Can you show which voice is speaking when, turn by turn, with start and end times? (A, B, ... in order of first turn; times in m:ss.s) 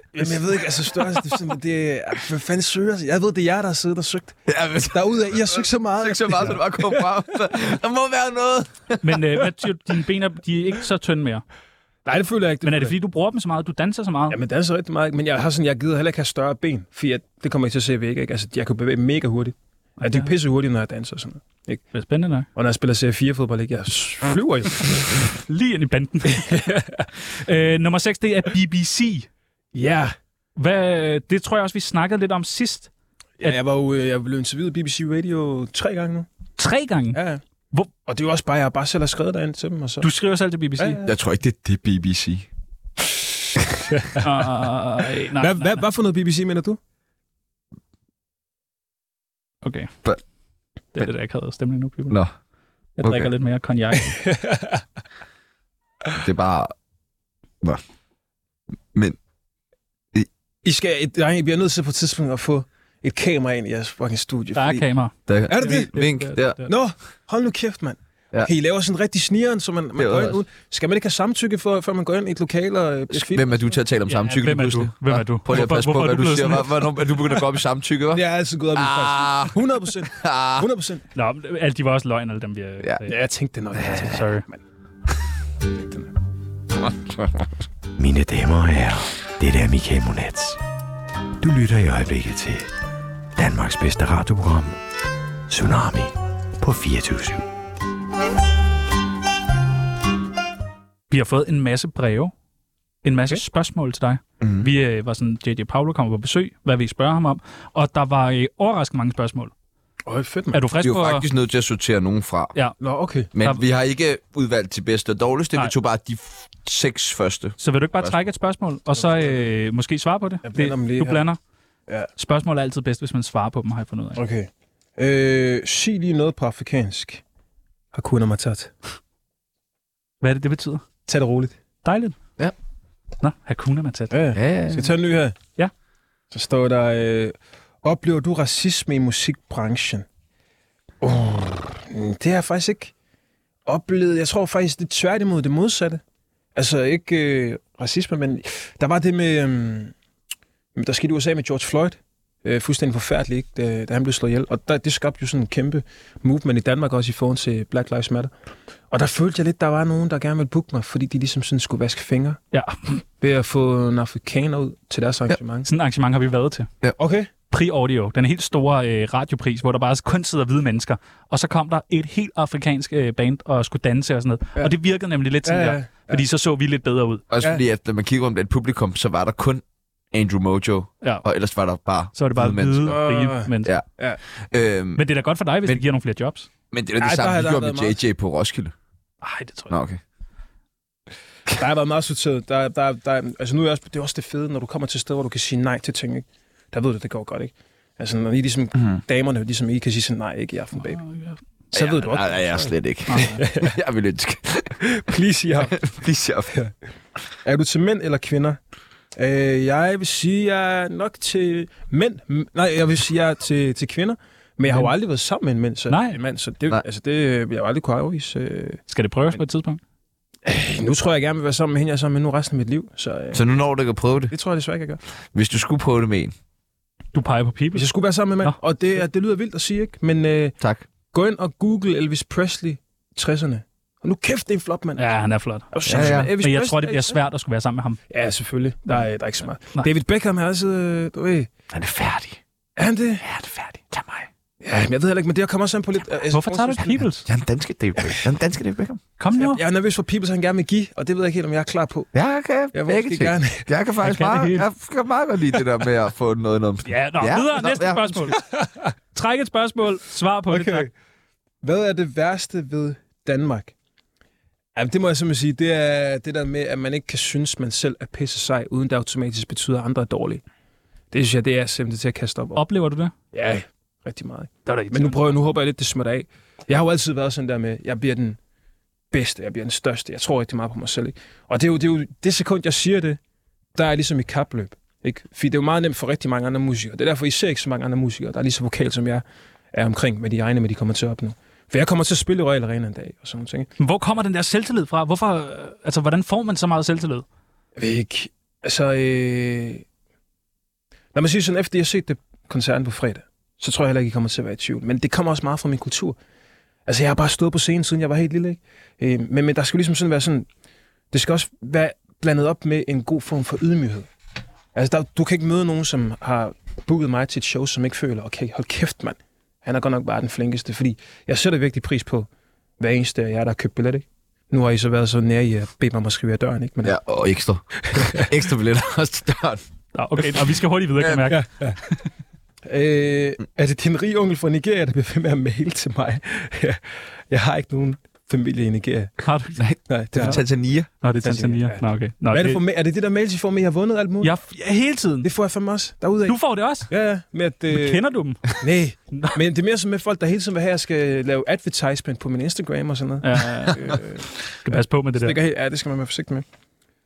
0:00.2-0:07.1 A
0:04.5-0:09.2 B
0:09.0-0:11.4 C
0:12.1-0:13.0 A
0:12.6-0:14.4 C
0:14.3-0:21.8 A
0:20.0-0:20.3 C
0:21.9-0:22.5 C
0:22.6-0:25.3 A
0:25.3-0:26.6 C
0:26.3-0:27.1 A
0:27.3-0:29.3 C
0:29.7-0:30.1 A
0:30.6-0:32.9 C
0:33.4-0:36.3 A
0:36.6-0:37.2 C
0:37.1-0:37.4 A
0:38.1-0:40.1 A
0:40.0-0:41.0 C
0:40.8-0:41.1 A
0:41.0-0:42.5 B
0:43.9-0:44.2 A
0:44.2-0:45.8 C
0:45.4-0:46.8 A
0:49.6-0:49.9 C
0:51.0-0:52.2 C
0:53.0-0:54.2 C
0:53.0-0:53.3 B
0:54.0-0:54.8 A
0:56.2-0:56.7 B
1:00.6-1:04.8 A
1:04.5-1:06.7 C
1:05.3-1:06.6 B
1:05.5-1:05.9 A
1:06.7-1:13.8 A
1:10.0-1:10.4 B
1:13.1-1:18.2 B
1:14.1-1:16.9 C
1:18.1-1:21.0 A
1:18.8-1:19.6 B
1:20.1-1:20.7 B
1:21.2-1:23.2 C
1:23.1-1:24.6 A
1:23.8-1:24.5 C
1:25.7-1:26.1 A
1:28.0-1:30.6 D
1:31.4-1:32.7 D
1:33.4-1:34.8 D
1:35.5-1:37.4 D
1:41.1-1:42.3 C
1:43.0-1:49.5 C
1:44.4-1:44.7 B
1:50.1-1:50.6 A
1:50.5-1:51.3 C
1:50.8-1:52.5 B
1:52.8-1:53.3 A
1:53.3-1:58.2 B
1:53.4-1:53.6 C
1:57.6-2:01.4 C
1:58.9-1:59.5 A
2:00.4-2:01.2 A
2:02.2-2:04.2 C
2:04.2-2:07.2 A
2:07.9-2:08.7 A
2:10.2-2:10.9 C
2:11.1-2:11.6 A
2:11.8-2:12.2 C
2:13.2-2:14.2 C
2:14.1-2:15.4 A
2:14.4-2:14.9 B
2:16.3-2:20.1 A
2:21.0-2:22.9 A
2:23.7-2:26.0 A
2:26.6-2:29.9 A
2:30.8-2:38.3 A
2:38.9-2:42.4 A
2:42.5-2:43.0 C
2:43.2-2:45.7 A
2:45.7-2:46.7 C
2:47.0-2:47.3 A
2:47.5-2:57.2 C
2:55.4-2:56.2 A
2:57.3-3:03.1 B
3:02.1-3:03.7 C
3:02.9-3:04.2 A
3:04.5-3:05.0 B
3:05.0-3:06.5 C
3:06.7-3:08.7 B
3:07.0-3:08.0 A
3:09.2-3:09.8 C
3:09.7-3:10.0 B
3:11.5-3:21.0 A
3:20.8-3:21.4 C
3:21.7-3:23.8 A
3:21.7-3:24.8 B
3:23.1-3:23.4 C
3:24.8-3:25.8 A
3:25.6-3:26.6 B
3:27.4-3:28.6 A
3:29.2-3:38.8 A
3:34.7-3:34.9 C
3:35.9-3:36.2 C
3:38.9-3:39.8 C
3:40.4-3:43.4 A
3:43.3-3:44.3 B
3:44.3-3:45.0 A
3:45.3-3:46.3 B
3:47.1-3:47.9 C
3:47.8-3:50.6 A
3:50.6-3:50.9 B
3:51.1-3:55.2 A
3:55.0-3:58.0 C
3:55.7-3:57.2 A
3:55.9-3:56.3 B
3:58.1-4:01.5 A
4:01.8-4:02.4 B
4:02.8-4:03.2 A
4:03.2-4:04.3 B
4:04.6-4:07.0 A
4:06.3-4:07.3 C
4:07.3-4:09.0 B
4:09.2-4:09.6 C
4:09.4-4:12.1 A
4:12.1-4:18.4 B
4:12.7-4:13.7 A
4:14.0-4:14.7 C
4:16.8-4:18.4 C
4:18.4-4:18.9 A
4:19.1-4:20.9 C
4:20.5-4:20.9 A
4:21.6-4:23.7 A
4:24.8-4:30.4 A
4:31.1-4:32.6 A
4:32.6-4:33.1 C
4:33.3-4:38.4 A
4:34.7-4:35.2 C
4:39.1-4:43.2 A
4:43.8-4:53.7 A
4:53.8-4:57.2 C
4:57.8-4:59.8 A
5:01.1-5:06.2 A
5:06.9-5:10.5 A
5:11.1-5:14.1 A
5:14.8-5:22.3 A
5:22.8-5:27.0 A
5:26.8-5:29.6 B
5:27.9-5:28.2 A
5:29.9-5:32.0 C
5:31.0-5:31.3 B
5:31.3-5:31.8 A
5:32.7-5:36.8 A
5:37.3-5:39.2 A
5:39.2-5:39.6 C
5:39.6-5:40.9 B
5:39.9-5:40.4 A
5:40.2-5:40.4 C
5:41.0-5:42.6 C
5:41.2-5:44.4 A
5:44.2-5:45.3 C
5:45.2-5:48.0 A
5:46.3-5:46.9 C
5:47.7-5:48.5 C
5:48.6-5:54.3 A
5:53.2-5:54.0 C
5:54.6-5:55.4 C
5:55.2-5:56.4 A